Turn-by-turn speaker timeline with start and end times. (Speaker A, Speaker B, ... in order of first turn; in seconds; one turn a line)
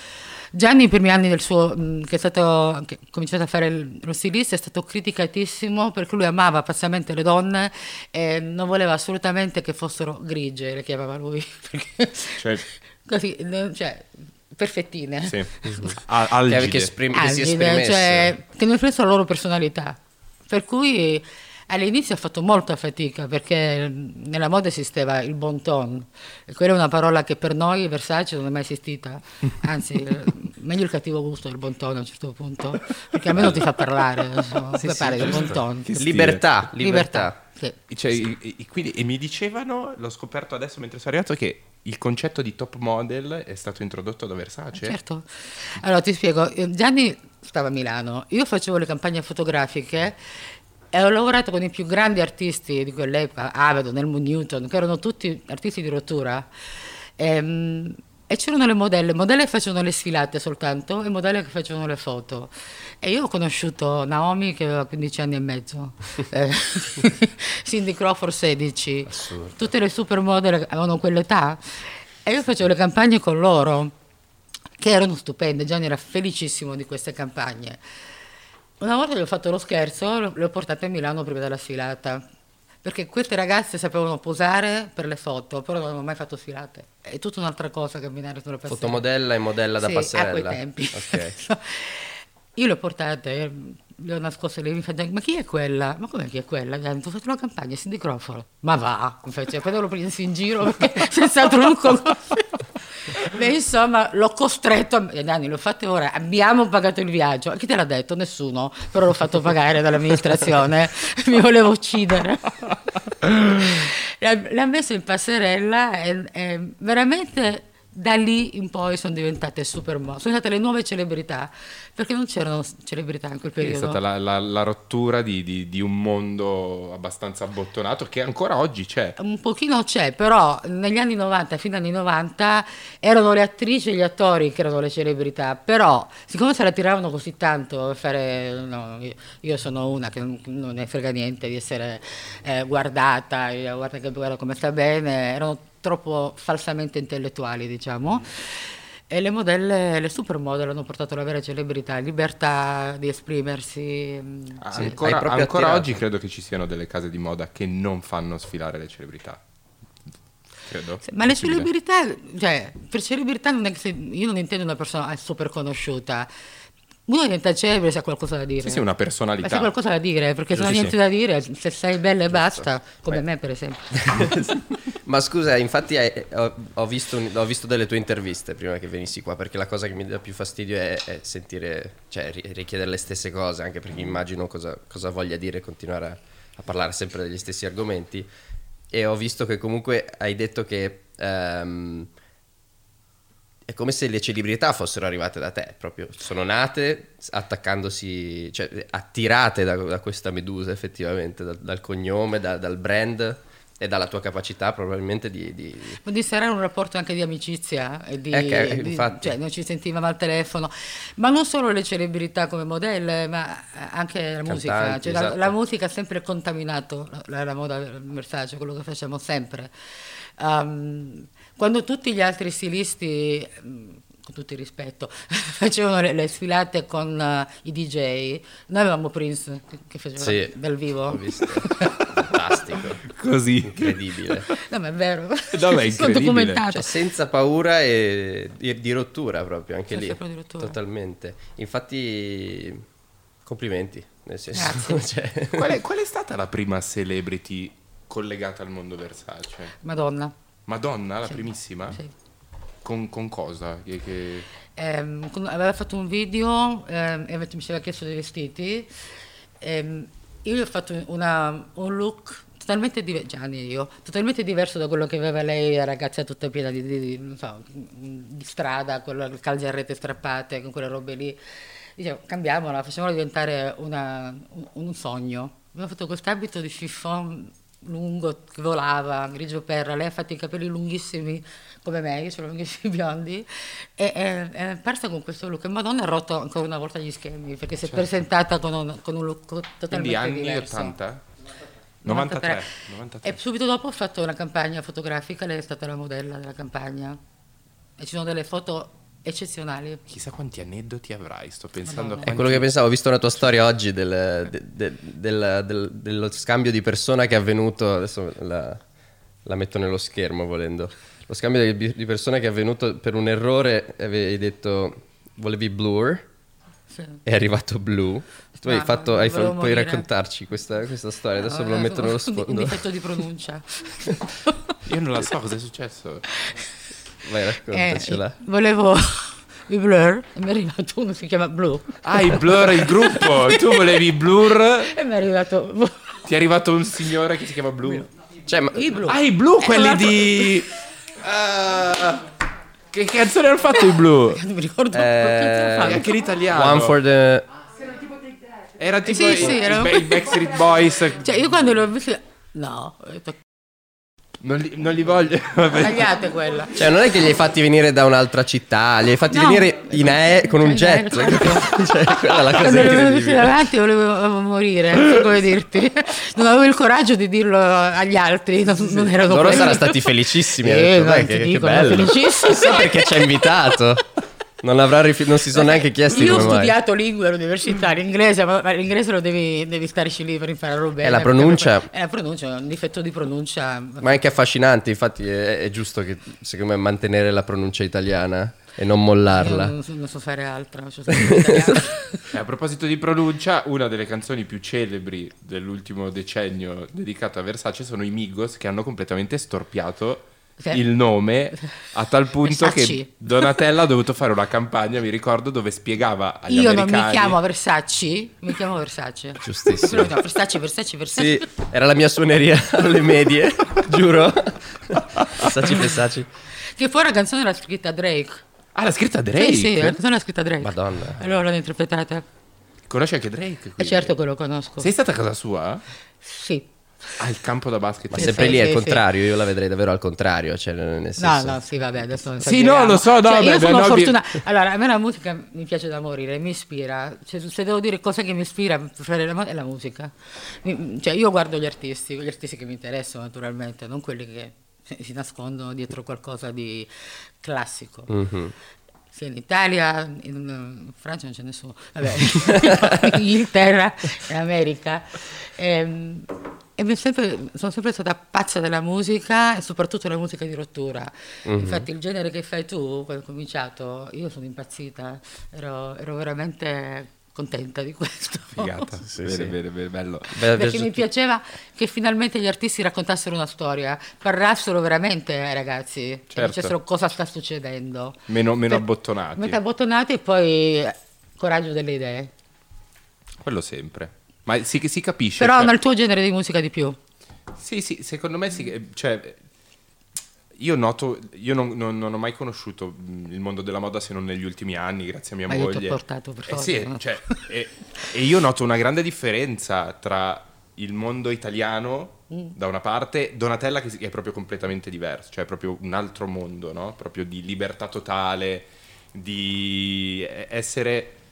Speaker A: 0.5-15.9
Speaker B: 12.4-12.6
Speaker B: 15.3-16.9
Speaker C: 16.4-18.3
Speaker A: 17.1-36.0
Speaker B: 33.3-33.6
Speaker C: 34.8-37.4
Speaker B: 34.8-36.6
Speaker A: 36.7-37.8
Speaker B: 37.9-45.0
Speaker A: 44.7-56.5
Speaker A: 57.2-73.9
Speaker C: 69.1-69.5
Speaker A: 74.8-77.8
Speaker A: 78.8-82.2
Speaker A: 82.8-89.0
Speaker C: 88.7-91.3
Speaker A: 89.8-124.0
Speaker B: 123.6-129.2
Speaker A: 129.2-155.0
Speaker B: 154.6-159.4
Speaker C: 154.7-156.0
Speaker B: 160.7-161.7
Speaker A: 161.1-166.3
Speaker A: 167.1-168.8
Speaker B: 168.6-169.7
Speaker A: 169.4-174.2
Speaker B: 170.5-170.9
Speaker C: 173.9-188.3
Speaker C: 188.9-192.1
Speaker C: 193.7-206.0
Speaker A: 206.0-219.7
Speaker C: 208.3-209.3
Speaker C: 214.4-215.5
Speaker A: 220.4-231.9
Speaker C: 230.2-230.5
Speaker C: 231.1-233.0
Speaker B: 233.0-234.6
Speaker C: 233.6-234.5
Speaker A: 234.5-237.0
Speaker B: 235.5-236.6
Speaker C: 236.7-242.8
Speaker A: 239.9-240.8
Speaker C: 243.4-245.8
Speaker A: 244.5-245.0
Speaker B: 245.5-249.7
Speaker A: 249.8-250.3
Speaker B: 250.7-252.0
Speaker B: 252.8-254.5
Speaker A: 254.8-258.9
Speaker A: 259.6-271.4
Speaker A: 272.0-290.9
Speaker B: 289.9-291.2
Speaker A: 292.0-292.7
Speaker B: 292.0-293.4
Speaker A: 293.2-297.2
Speaker A: 298.0-300.0
Speaker B: 300.1-302.7
Speaker A: 301.9-302.3
Speaker C: 302.2-308.8
Speaker C: 309.4-316.3
Speaker A: 316.9-317.2
Speaker C: 317.2-322.8
Speaker A: 318.6-320.1
Speaker A: 321.4-324.8
Speaker B: 324.9-326.2
Speaker A: 326.3-326.6
Speaker C: 327.2-328.4
Speaker A: 327.7-333.8
Speaker B: 332.0-334.9
Speaker A: 334.8-336.2
Speaker B: 336.3-338.1
Speaker C: 338.4-338.9
Speaker A: 338.7-340.6
Speaker B: 339.1-342.2
Speaker B: 342.9-344.4
Speaker A: 344.3-346.1
Speaker C: 344.9-347.5
Speaker B: 345.8-347.0
Speaker B: 348.8-351.2
Speaker A: 349.0-350.2
Speaker A: 351.2-353.4
Speaker B: 354.4-356.2
Speaker A: 355.8-356.8
Speaker C: 356.7-363.6
Speaker A: 359.3-361.7
Speaker A: 362.3-373.8
Speaker C: 369.1-374.0
Speaker C: 374.6-376.8
Speaker A: 375.5-384.2
Speaker C: 381.0-381.9
Speaker C: 384.0-389.7
Speaker A: 389.3-392.3
Speaker C: 391.1-391.8
Speaker B: 392.3-407.4
Speaker A: 402.4-403.5
Speaker A: 406.5-411.5
Speaker C: 409.4-410.1
Speaker C: 411.1-416.3
Speaker A: 416.7-418.4
Speaker B: 418.7-420.0
Speaker A: 419.3-422.2
Speaker C: 420.6-421.2
Speaker B: 422.9-424.1
Speaker A: 423.8-424.9
Speaker B: 424.8-425.8
Speaker A: 426.2-426.7
Speaker B: 427.2-428.6
Speaker C: 428.1-431.6
Speaker A: 428.1-429.0
Speaker A: 431.2-448.1
Speaker B: 432.4-434.2
Speaker C: 448.1-448.5
Speaker A: 449.1-468.9
Speaker C: 452.6-452.9
Speaker C: 461.4-461.9
Speaker B: 468.6-470.4
Speaker C: 469.1-469.6
Speaker C: 470.3-471.0
Speaker A: 470.5-478.8
Speaker B: 476.3-476.7
Speaker B: 478.3-479.6
Speaker A: 479.4-482.3
Speaker B: 483.4-485.7
Speaker A: 485.4-487.0
Speaker B: 487.6-489.4
Speaker B: 490.6-511.2
Speaker A: 495.5-497.4